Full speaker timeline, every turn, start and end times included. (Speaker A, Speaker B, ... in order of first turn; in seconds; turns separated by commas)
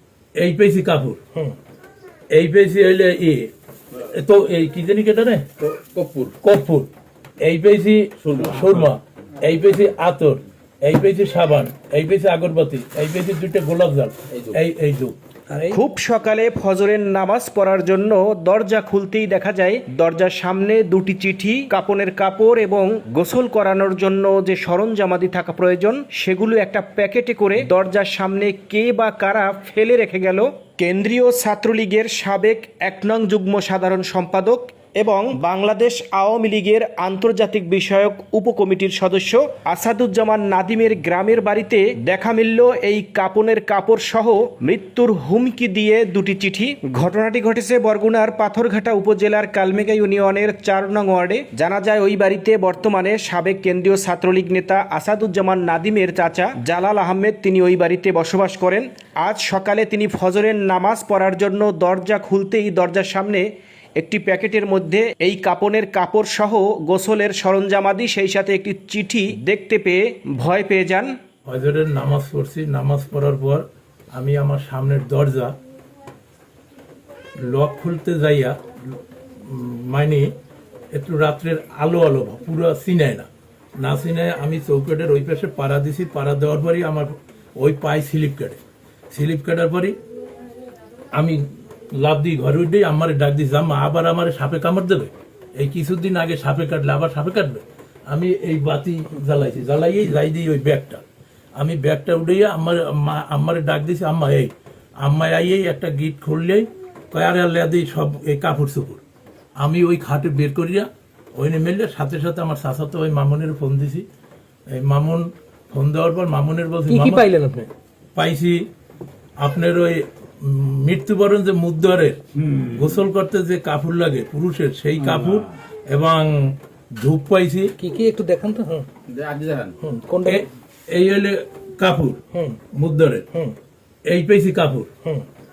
Speaker A: 0.4-1.2, Speaker A: 2.3-3.5, Speaker A: 4.1-5.5, Speaker B: 5.6-6.3, Speaker A: 6.4-6.9, Speaker A: 7.4-15.2, Speaker B: 8.2-8.9, Speaker B: 14.3-14.6, Speaker C: 15.5-15.8, Speaker D: 15.7-63.5, Speaker D: 64.0-71.1, Speaker A: 71.5-75.6, Speaker A: 77.4-78.6, Speaker A: 79.5-80.3, Speaker A: 80.9-83.3, Speaker A: 83.8-88.6, Speaker A: 89.1-90.0, Speaker A: 91.2-101.0, Speaker A: 101.6-109.0, Speaker A: 109.6-114.0, Speaker A: 114.7-117.3, Speaker C: 116.9-117.7, Speaker A: 118.2-118.7, Speaker A: 119.4-127.7, Speaker B: 122.5-122.8, Speaker B: 125.1-125.4, Speaker C: 127.8-128.9, Speaker B: 129.1-129.8, Speaker A: 129.8-132.2, Speaker C: 130.1-130.4, Speaker C: 132.3-132.6, Speaker A: 132.7-133.3, Speaker A: 134.1-134.9